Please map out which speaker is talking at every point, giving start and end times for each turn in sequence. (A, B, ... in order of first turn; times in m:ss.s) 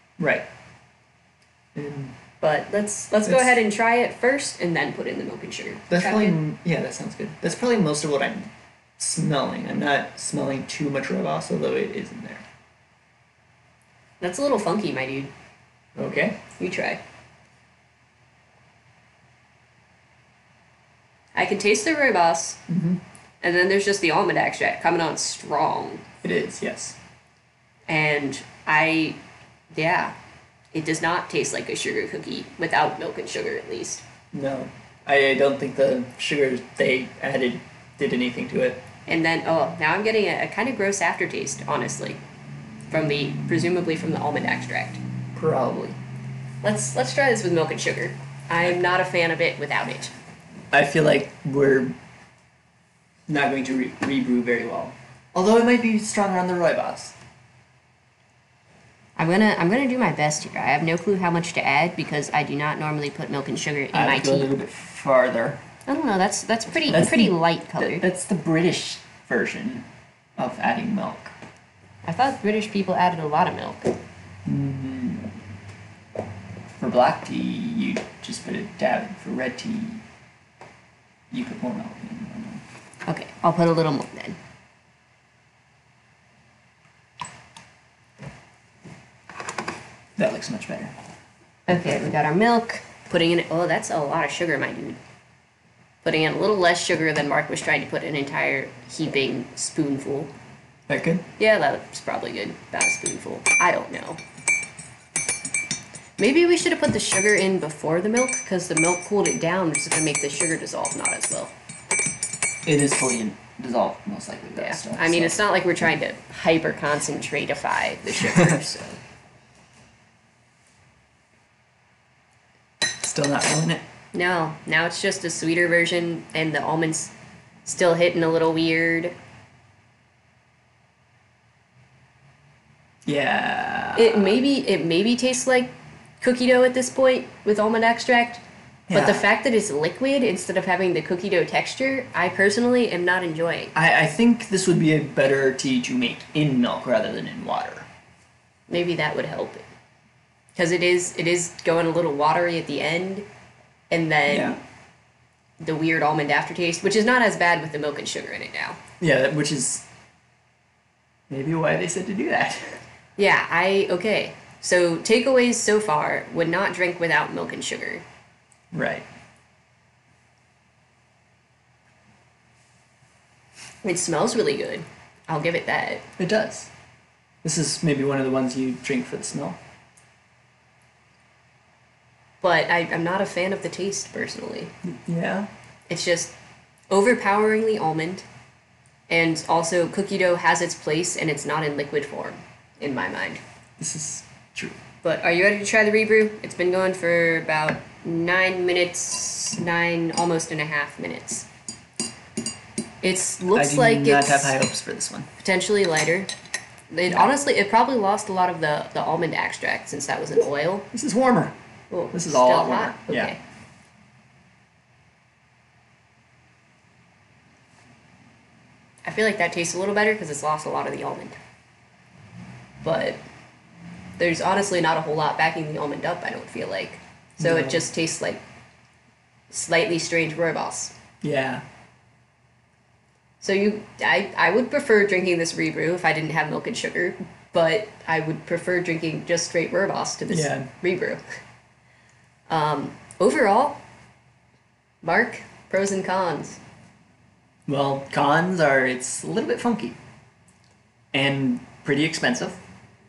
0:00.2-0:00.4 A
0:01.7-0:02.1 A
0:02.4-0:06.4 B
0:03.3-0:03.6 A
0:05.9-0:12.4 A
0:14.2-0:15.3 B
0:16.0-0:16.4 A
0:16.6-0:17.0 B
0:21.3-0:22.6 B
0:22.7-0:23.0 A
0:23.4-0:26.0 B
0:26.2-0:27.0 A
0:27.9-0:29.2 B
0:29.7-0:30.1 B
0:30.7-0:34.0 B
0:34.3-0:38.8 A
0:39.1-0:42.2 B
0:42.9-0:45.0 B
0:45.3-0:46.0 A
0:46.6-0:50.1 B
0:50.7-0:51.9 A
0:53.3-0:57.1 A
0:59.2-1:04.5 B
1:03.9-1:05.6 A
1:05.9-1:08.0 B
1:06.9-1:09.8 A
1:10.4-1:11.3 A
1:12.0-1:13.9 B
1:14.4-1:15.3 A
1:16.8-1:20.0 A
1:21.3-1:22.6 A
1:23.0-1:24.4 B
1:30.2-1:30.9 A
1:31.7-1:35.0 B
1:36.0-1:40.3 B
1:40.9-1:41.2 A
1:41.4-1:44.2 B
1:46.2-1:51.5 B
1:52.6-1:55.4 A
1:54.6-1:59.0 B
2:03.0-2:03.8 A
2:04.1-2:07.1 B
2:07.6-2:09.1 B
2:13.0-2:14.4 A
2:13.9-2:23.7 B
2:18.9-2:19.2 A
2:23.7-2:27.9 A
2:28.7-2:29.6 B
2:30.5-2:33.2 B
2:33.9-2:34.6 B
2:34.3-2:34.6 A
2:35.6-2:38.8 B
2:39.0-2:39.8 A
2:41.3-2:42.8 A
2:43.2-2:48.0 B
2:48.7-2:49.0 A
2:53.8-2:56.0 B
2:56.2-2:56.7 A
2:57.4-2:59.6 A
3:02.4-3:04.7 B
3:04.8-3:05.5 A
3:05.9-3:06.3 B
3:06.9-3:08.2 B
3:09.1-3:13.4 B
3:13.8-3:14.8 A
3:15.0-3:21.5 B
3:23.0-3:24.6 B
3:23.5-3:25.3 A
3:25.4-3:26.3 B
3:26.9-3:30.9 B
3:30.9-3:31.5 A
3:31.9-3:33.4 B
3:32.1-3:33.3 A
3:39.0-3:41.4 B
3:42.8-3:43.2 B
3:44.2-3:48.4 B
3:47.4-3:47.8 A
3:49.5-3:50.9 B
3:51.2-3:51.6 A
3:53.4-4:01.2 B
4:00.3-4:00.7 A
4:02.5-4:03.8 B
4:05.0-4:06.6 B
4:07.7-4:10.0 A
4:11.1-4:12.6 A